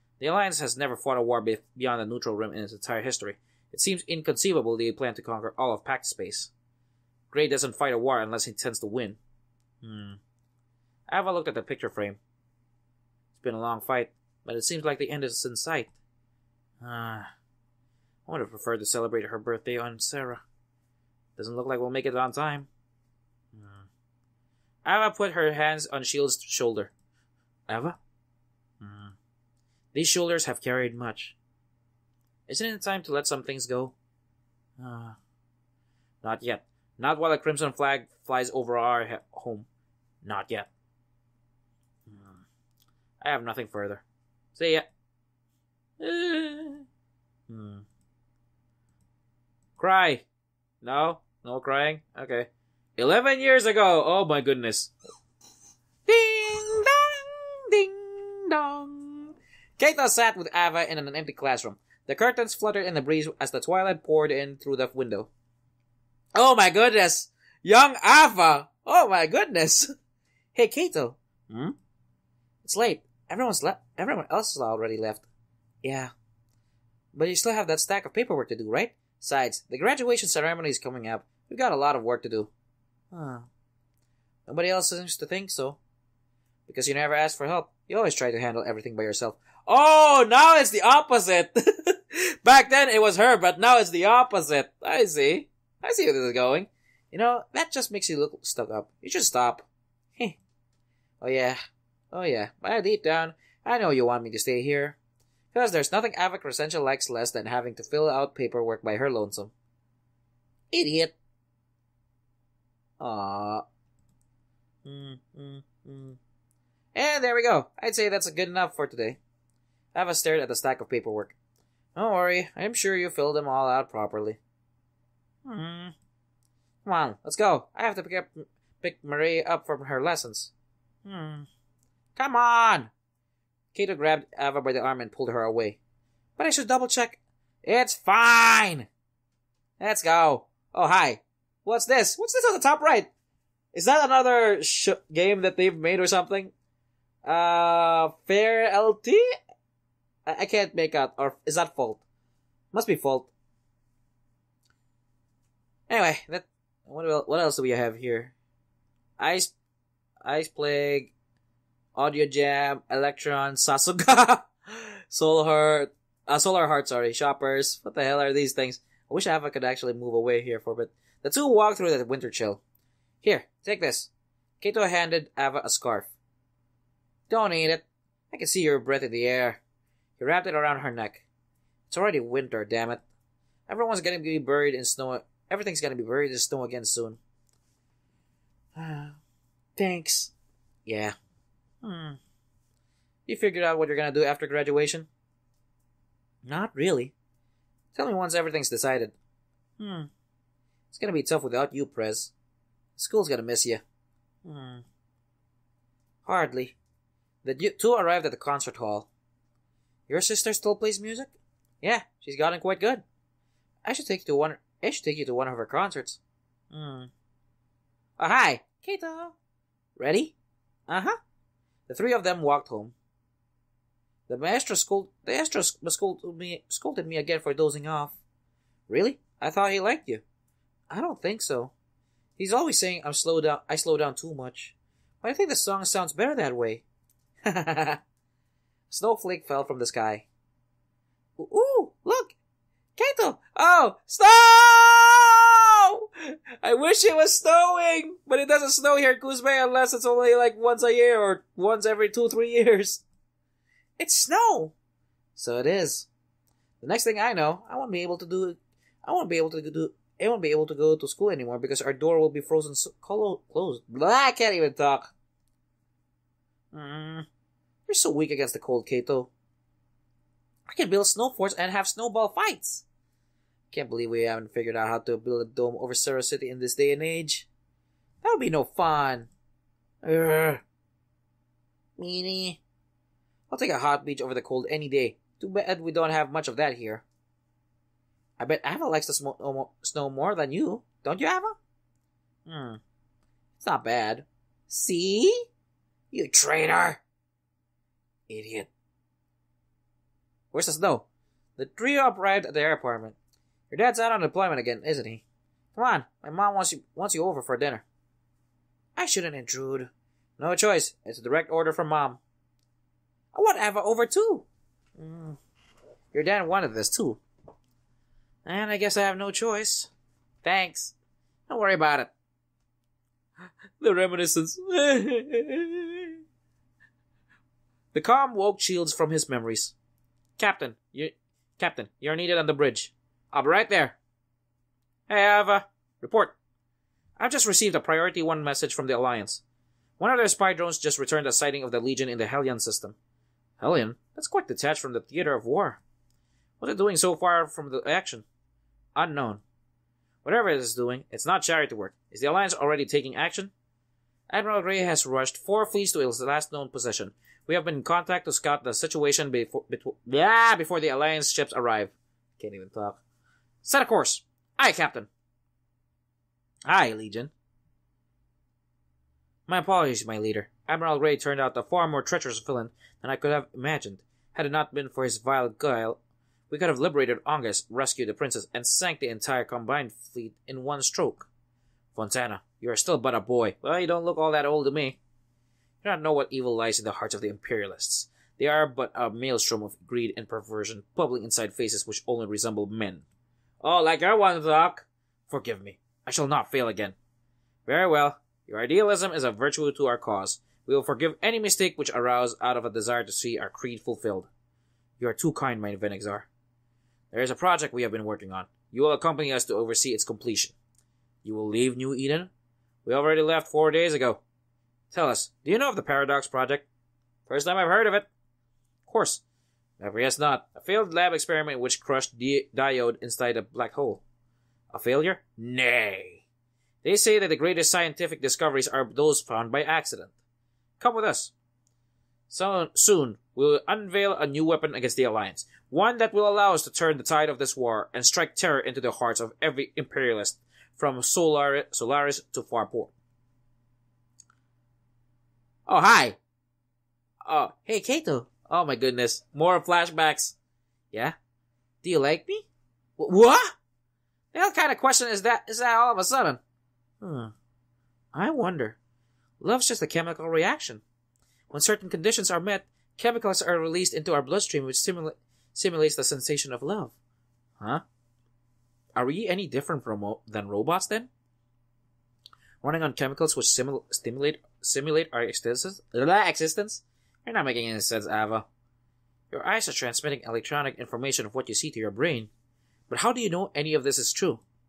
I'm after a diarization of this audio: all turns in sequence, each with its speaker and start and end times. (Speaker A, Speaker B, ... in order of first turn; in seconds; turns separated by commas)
Speaker A: 0.2-6.5, Speaker A: 7.3-9.2, Speaker A: 9.8-10.2, Speaker A: 11.1-12.2, Speaker A: 13.3-15.9, Speaker A: 16.8-17.3, Speaker A: 18.3-20.4, Speaker A: 21.4-22.7, Speaker A: 23.5-23.9, Speaker A: 24.8-26.9, Speaker A: 27.7-28.0, Speaker A: 28.8-29.1, Speaker A: 29.9-31.3, Speaker A: 32.5-33.9, Speaker A: 34.8-35.2, Speaker A: 36.2-39.6, Speaker A: 40.2-40.7, Speaker A: 42.1-42.4, Speaker A: 43.2-44.0, Speaker A: 44.5-44.9, Speaker A: 46.0-46.8, Speaker A: 47.5-47.8, Speaker A: 49.8-50.2, Speaker A: 50.8-54.9, Speaker A: 56.0-65.3, Speaker A: 66.3-69.9, Speaker A: 70.5-71.7, Speaker A: 72.6-75.2, Speaker A: 75.8-76.1, Speaker A: 77.1-82.5, Speaker A: 83.1-83.5, Speaker A: 84.5-85.8, Speaker A: 86.7-99.7, Speaker A: 101.2-101.6, Speaker A: 102.1-105.0, Speaker A: 105.5-109.5, Speaker A: 110.7-111.1, Speaker A: 113.0-113.6, Speaker A: 114.8-116.2, Speaker A: 116.9-119.2, Speaker A: 119.9-121.3, Speaker A: 122.0-124.4, Speaker A: 125.4-125.9, Speaker A: 126.8-130.5, Speaker A: 131.0-131.5, Speaker A: 132.2-132.9, Speaker A: 133.7-135.8, Speaker A: 136.4-138.9, Speaker A: 139.8-143.1, Speaker A: 143.7-146.5, Speaker A: 147.2-149.2, Speaker A: 150.2-152.0, Speaker A: 152.7-153.3, Speaker A: 155.9-158.3, Speaker A: 159.2-159.5, Speaker A: 160.2-161.1, Speaker A: 161.9-172.6, Speaker A: 173.2-174.1, Speaker A: 174.6-176.1, Speaker A: 177.3-179.6, Speaker A: 180.2-181.2, Speaker A: 181.9-183.0, Speaker A: 183.7-187.2, Speaker A: 188.8-189.2, Speaker A: 189.8-190.3, Speaker A: 190.9-191.1, Speaker A: 191.8-192.2, Speaker A: 193.3-195.1, Speaker A: 196.4-197.1, Speaker A: 197.9-199.1, Speaker A: 199.8-200.1, Speaker A: 200.9-202.3, Speaker A: 203.0-203.8, Speaker A: 204.4-204.8, Speaker A: 206.2-206.8, Speaker A: 207.4-209.1, Speaker A: 210.1-213.0, Speaker A: 213.8-216.2, Speaker A: 216.7-217.1, Speaker A: 218.2-219.3, Speaker A: 220.0-220.3, Speaker A: 220.9-221.2, Speaker A: 221.9-222.9, Speaker A: 224.3-228.2, Speaker A: 228.9-230.2, Speaker A: 230.9-231.7, Speaker A: 232.4-236.8, Speaker A: 237.4-238.0, Speaker A: 238.9-240.3, Speaker A: 241.4-242.3, Speaker A: 243.0-253.0, Speaker A: 254.0-254.7, Speaker A: 255.4-256.1, Speaker A: 256.8-265.1, Speaker A: 266.7-267.3, Speaker A: 267.9-269.3, Speaker A: 270.7-272.8, Speaker A: 273.7-277.5, Speaker A: 278.2-279.3, Speaker A: 280.0-280.6, Speaker A: 282.0-282.6, Speaker A: 283.5-287.0, Speaker A: 288.4-291.6, Speaker A: 292.4-292.8, Speaker A: 293.6-295.5, Speaker A: 296.1-297.0, Speaker A: 298.3-298.7, Speaker A: 300.5-301.1, Speaker A: 301.6-303.1, Speaker A: 303.7-305.2, Speaker A: 305.7-307.8, Speaker A: 308.9-312.2, Speaker A: 313.3-314.4, Speaker A: 315.0-315.4, Speaker A: 316.1-317.2, Speaker A: 318.4-319.9, Speaker A: 320.4-320.9, Speaker A: 321.5-322.1, Speaker A: 323.8-326.1, Speaker A: 327.9-329.7, Speaker A: 330.4-334.0, Speaker A: 335.1-336.4, Speaker A: 337.2-339.4, Speaker A: 340.0-342.9, Speaker A: 343.6-345.8, Speaker A: 346.6-348.2, Speaker A: 348.9-349.4, Speaker A: 350.2-353.5, Speaker A: 354.3-363.0, Speaker A: 363.6-365.1, Speaker A: 366.7-367.3, Speaker A: 369.5-376.0, Speaker A: 376.5-381.3, Speaker A: 381.9-385.0, Speaker A: 385.8-393.0, Speaker A: 393.6-396.9, Speaker A: 397.6-404.3, Speaker A: 405.0-406.3, Speaker A: 407.1-410.5, Speaker A: 411.2-412.3, Speaker A: 412.8-414.2, Speaker A: 414.9-416.6, Speaker A: 417.3-418.1, Speaker A: 418.9-419.2, Speaker A: 419.8-424.0, Speaker A: 424.7-426.2, Speaker A: 426.8-430.1, Speaker A: 430.8-431.3, Speaker A: 432.3-442.9, Speaker A: 445.7-446.2, Speaker A: 447.2-450.4, Speaker A: 451.8-452.4, Speaker A: 453.0-453.6, Speaker A: 454.3-456.4, Speaker A: 457.0-457.3, Speaker A: 458.1-458.8, Speaker A: 459.4-460.8, Speaker A: 461.5-466.9, Speaker A: 468.9-471.1, Speaker A: 472.6-478.4, Speaker A: 479.3-482.3, Speaker A: 482.9-484.4